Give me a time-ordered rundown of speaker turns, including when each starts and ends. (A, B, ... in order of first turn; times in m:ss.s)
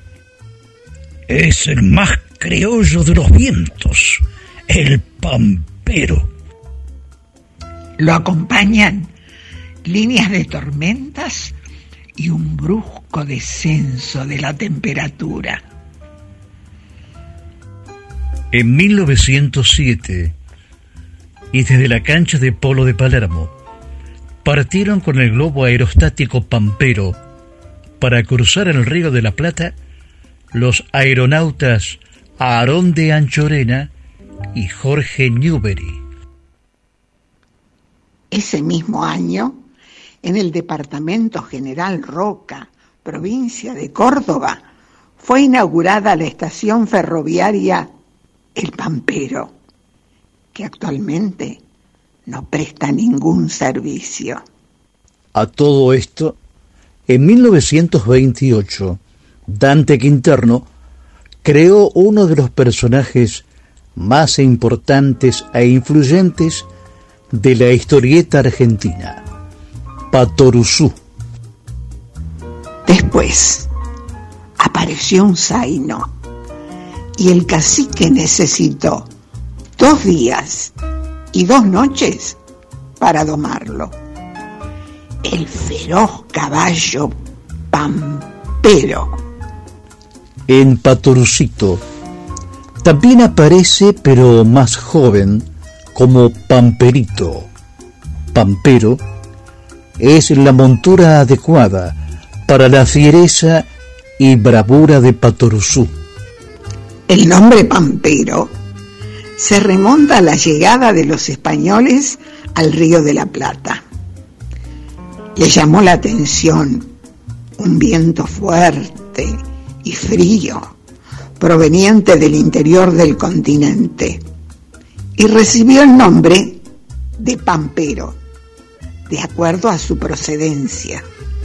0:01.3-0:06.3 A
0:08.0-0:09.1 B
0:09.8-0:11.5 B
0:12.2-0:15.6 B
0:18.5-0:20.4 C
0:21.5-0:23.5 C
0:24.4-0:27.2 C
0:28.0-0:29.7 C
0:30.5-0:33.9 C
0:34.5-0:36.0 C
0:38.3-0:39.6 B
0:40.2-0:44.6 B
0:45.2-0:47.9 B
0:48.6-0:49.5 B
0:50.5-0:51.6 B
0:52.3-0:54.4 B
0:55.4-0:56.4 C
0:57.1-1:00.7 C
1:01.4-1:03.4 C
1:04.0-1:06.7 C
1:07.3-1:09.2 C
1:10.1-1:11.0 C
1:12.9-1:13.7 B
1:14.6-1:16.1 B
1:17.2-1:19.1 B
1:19.8-1:20.7 B
1:21.3-1:22.4 B
1:23.0-1:24.0 B
1:25.2-1:27.2 B
1:27.7-1:29.2 B
1:30.5-1:31.8 C
1:32.8-1:37.5 C
1:38.3-1:39.0 C
1:40.0-1:43.7 C
1:44.2-1:46.0 C
1:47.1-1:48.5 B
1:49.4-1:53.8 B
1:55.4-1:56.9 B
1:57.6-2:00.8 B
2:01.4-2:04.2 B
2:05.2-2:06.6 B
2:07.2-2:08.2 B
2:09.1-2:11.0 B